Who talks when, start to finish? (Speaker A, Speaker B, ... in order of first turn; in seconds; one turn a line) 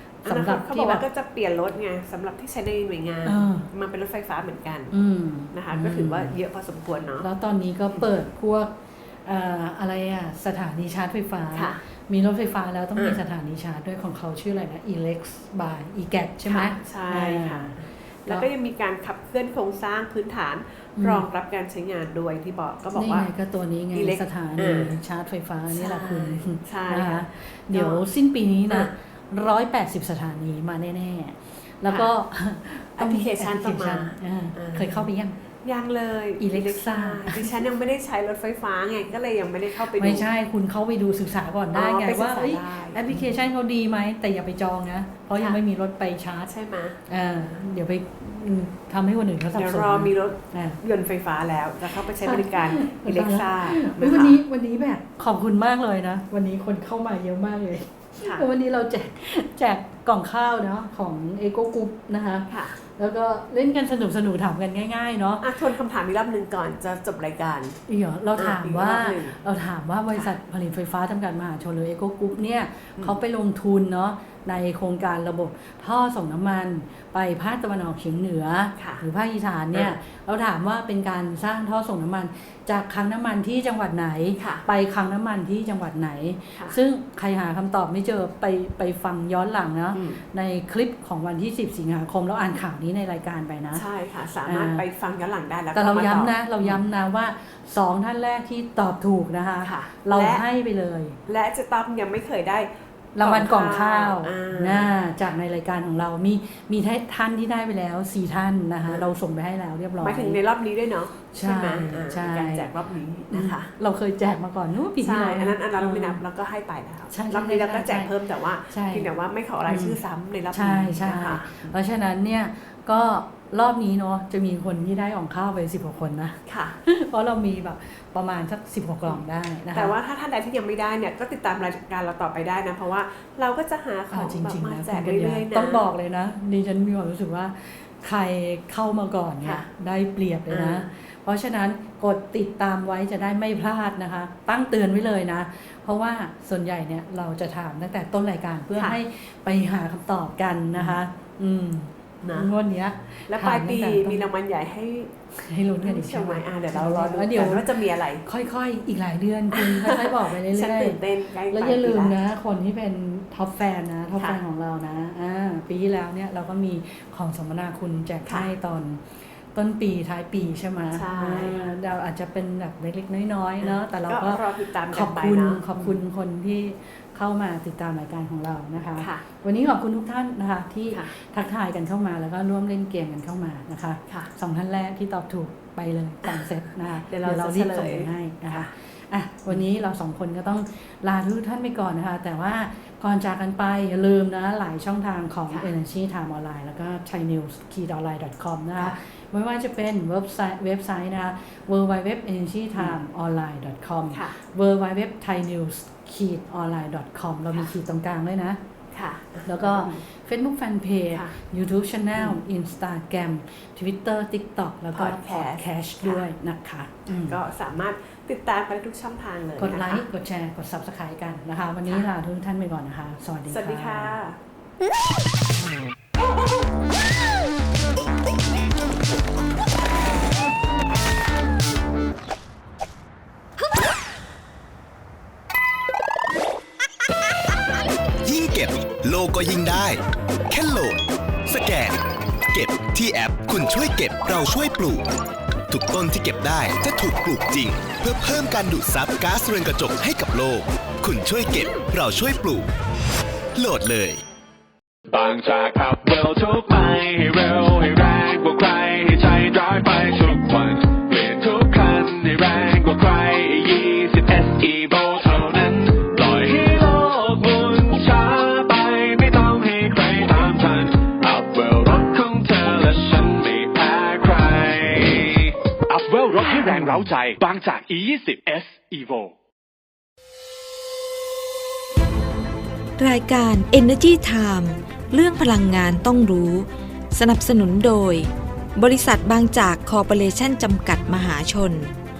Speaker A: 0.2-1.0
Speaker B: 0.2-4.9
Speaker A: 3.2-3.6
Speaker A: 4.9-6.3
Speaker B: 5.5-7.3
Speaker A: 7.2-18.5
Speaker B: 11.5-11.8
Speaker B: 16.4-23.3
Speaker A: 21.0-21.2
Speaker A: 22.9-35.4
Speaker B: 23.9-24.9
Speaker B: 25.7-28.0
Speaker B: 33.0-35.0
Speaker B: 35.6-40.2
Speaker A: 36.4-37.6
Speaker A: 40.0-46.5
Speaker B: 41.7-43.2
Speaker B: 46.5-47.0
Speaker A: 47.1-50.8
Speaker B: 49.5-54.4
Speaker A: 52.2-65.5
Speaker B: 58.2-58.5
Speaker B: 62.5-62.8
Speaker B: 65.4-67.8
Speaker A: 67.9-93.8
Speaker B: 68.4-69.4
Speaker B: 78.8-79.0
Speaker B: 84.4-84.6
Speaker B: 89.9-90.2
Speaker B: 93.7-96.8
Speaker A: 94.5-94.8
Speaker A: 95.7-101.2
Speaker B: 99.6-100.4
Speaker B: 101.3-104.9
Speaker A: 103.1-110.4
Speaker B: 110.0-113.7
Speaker A: 111.3-112.7
Speaker A: 113.3-116.2
Speaker B: 115.0-121.7
Speaker A: 117.1-118.1
Speaker A: 118.7-119.1
Speaker A: 119.7-120.0
Speaker A: 120.5-129.9
Speaker B: 126.5-126.8
Speaker B: 129.7-135.8
Speaker A: 134.1-154.2
Speaker B: 139.4-139.7
Speaker B: 140.5-140.9
Speaker B: 150.7-151.0
Speaker B: 152.2-152.5
Speaker B: 153.3-155.1
Speaker A: 155.3-208.6
Speaker B: 155.8-158.2
Speaker B: 159.5-162.2
Speaker B: 170.9-171.7
Speaker B: 173.6-175.9
Speaker B: 179.0-179.2
Speaker B: 187.1-188.7
Speaker B: 204.1-204.3
Speaker B: 208.9-210.0
Speaker A: 209.4-217.4
Speaker B: 214.9-216.2
Speaker B: 217.1-220.1
Speaker A: 219.6-224.2
Speaker B: 223.5-224.4
Speaker C: 238.2-245.1
Speaker C: 245.7-252.7
Speaker C: 253.5-254.2
Speaker D: 255.1-279.3
Speaker E: 283.0-291.9